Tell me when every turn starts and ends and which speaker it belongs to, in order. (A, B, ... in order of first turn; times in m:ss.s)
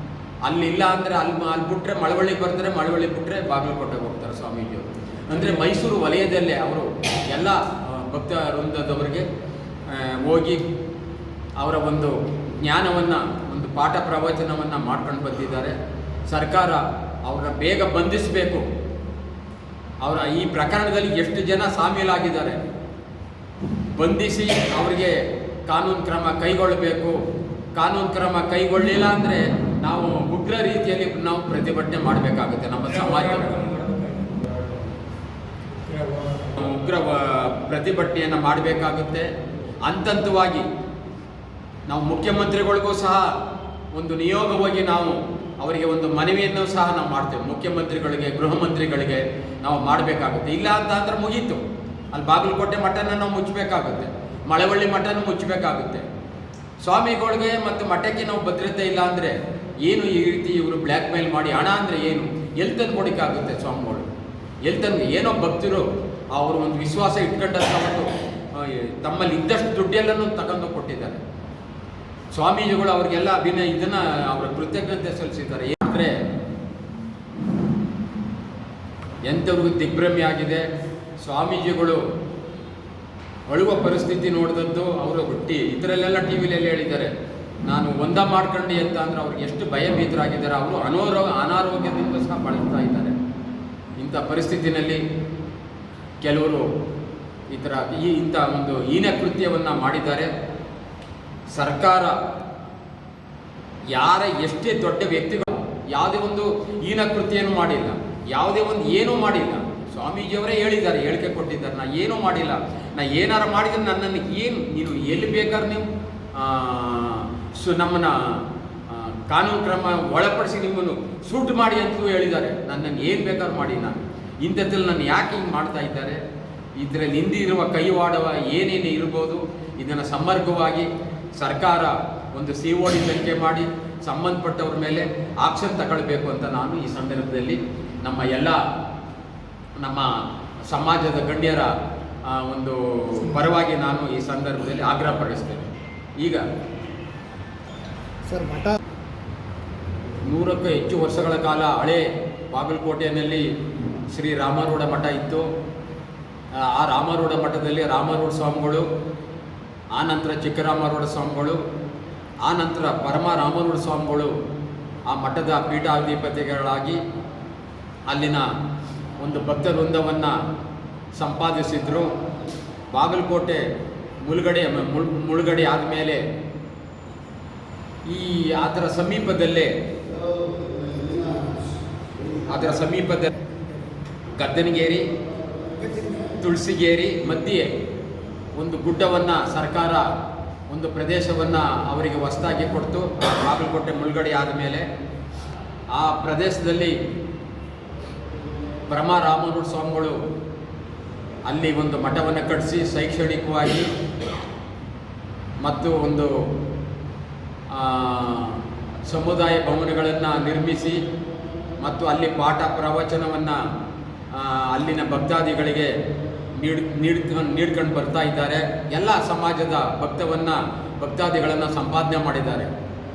0:00.4-0:09.2 A
0:09.9-0:10.7 A
0:11.6-0:15.8 A
0:16.3-0:18.7 A
0:20.0-0:22.6 A
0:24.0-0:27.2 A
0:27.8-0:33.7 A
0:33.4-0:34.5 B
0:35.8-0:36.6 B
0:36.6-0:39.3 A
0:39.8-0:40.7 A
0:41.9-0:43.4 A
0:43.9-0:56.1 A
0:56.8-1:04.1 A
1:04.6-1:11.2 A
1:12.3-1:16.2 A
1:19.2-1:20.7 A
1:21.2-1:22.0 A
1:23.5-1:27.1 A
1:27.7-1:33.2 A
1:34.0-1:35.0 A
1:36.2-1:36.7 A
1:37.5-1:40.3 A
1:41.5-1:42.2 A
1:43.9-2:06.2 A
2:06.8-2:18.6 A
2:19.8-2:21.7 A
2:22.2-2:26.4 A
2:28.3-2:28.8 B
2:30.2-2:33.4 A
2:34.1-2:35.5 A
2:36.5-2:38.9 A
2:39.9-2:41.6 A
2:42.4-2:44.3 A
2:45.1-2:47.0 A
2:48.1-2:48.5 A
2:49.2-2:50.4 A
2:51.2-2:52.1 A
2:52.9-2:53.6 A
2:54.2-2:56.2 A
2:58.1-2:59.7 A
3:00.6-3:01.4 B
3:02.4-3:03.3 A
3:04.4-3:05.1 A
3:05.8-3:06.1 B
3:06.2-3:07.7 A
3:08.6-3:10.1 A
3:10.7-3:14.8 A
3:15.9-3:17.0 A
3:18.9-3:20.2 A
3:21.5-3:23.9 A
3:25.6-3:26.4 A
3:27.7-3:31.0 A
3:31.8-3:33.6 A
3:34.3-3:35.9 A
3:36.6-3:42.7 A